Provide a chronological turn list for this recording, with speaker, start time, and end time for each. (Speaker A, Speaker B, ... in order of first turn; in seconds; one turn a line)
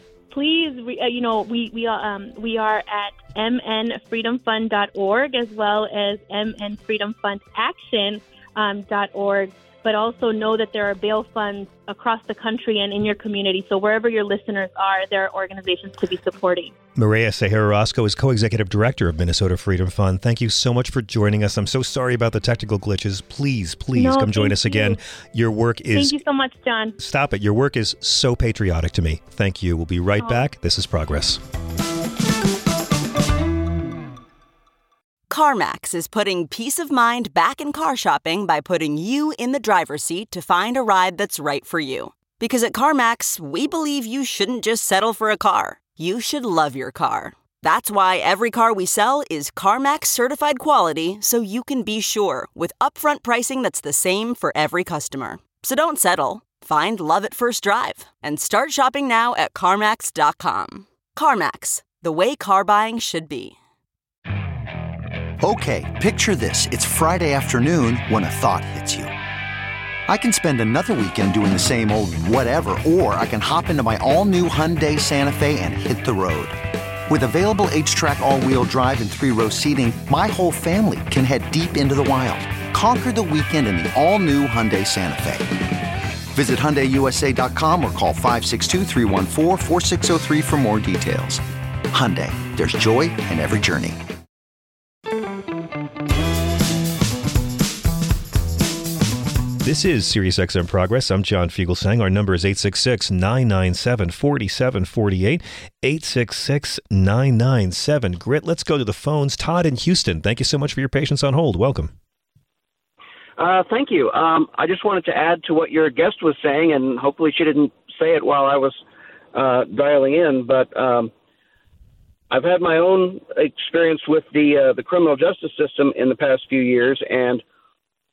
Speaker A: 0.3-16.7
Speaker B: 16.9-26.2
Speaker A: 23.9-25.0
Speaker A: 25.9-26.9
Speaker B: 27.0-31.4
Speaker C: 35.3-63.5
Speaker D: 65.4-69.1
Speaker D: 70.1-76.5
Speaker D: 77.1-85.5
Speaker D: 86.3-94.0
Speaker B: 99.6-111.9
Speaker E: 113.4-118.8
Speaker E: 119.3-121.1
Speaker E: 122.3-127.4